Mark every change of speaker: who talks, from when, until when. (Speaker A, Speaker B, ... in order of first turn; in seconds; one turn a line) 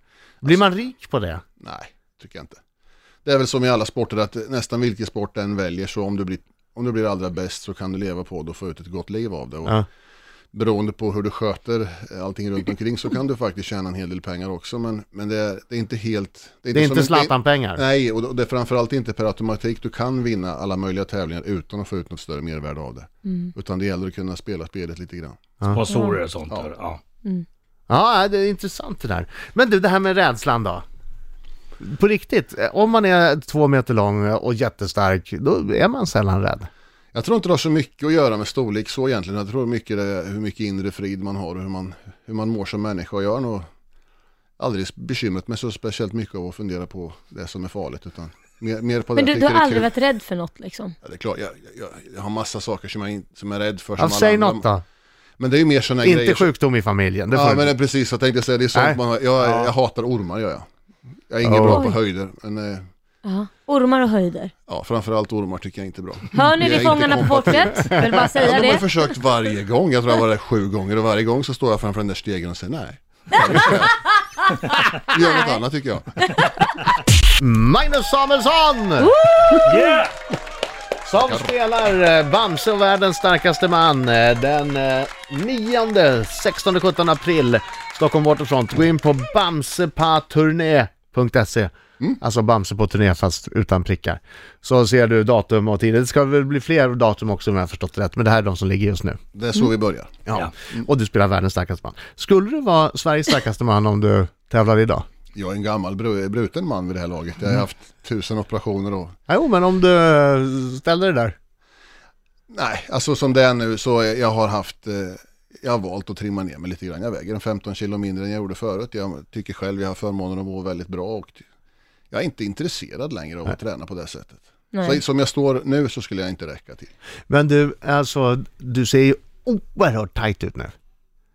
Speaker A: 0.4-1.4
Speaker B: 1.6-2.6
Speaker B: 3.2-9.8
Speaker B: 10.5-25.4
Speaker A: 16.7-17.8
Speaker C: 23.2-23.5
Speaker D: 25.7-27.0
Speaker C: 25.9-26.2
Speaker A: 27.9-30.8
Speaker A: 31.8-36.7
Speaker B: 37.1-43.7
Speaker B: 44.6-49.9
Speaker C: 49.1-51.0
Speaker B: 51.0-54.7
Speaker A: 54.0-54.8
Speaker B: 55.4-56.5
Speaker A: 56.0-57.8
Speaker B: 57.3-60.7
Speaker A: 58.7-59.0
Speaker D: 59.4-59.7
Speaker B: 61.3-62.9
Speaker A: 61.4-61.9
Speaker C: 61.6-62.0
Speaker C: 63.2-64.5
Speaker B: 64.7-74.0
Speaker C: 66.3-69.1
Speaker C: 73.6-75.5
Speaker B: 75.0-76.5
Speaker C: 76.3-76.6
Speaker A: 77.4-79.1
Speaker C: 79.0-80.0
Speaker D: 79.6-80.1
Speaker A: 81.0-99.2
Speaker B: 99.3-100.2
Speaker A: 100.3-105.0
Speaker B: 105.3-109.2
Speaker A: 109.3-111.3
Speaker B: 112.5-121.5
Speaker B: 122.1-126.9
Speaker C: 124.7-125.0
Speaker A: 127.3-130.7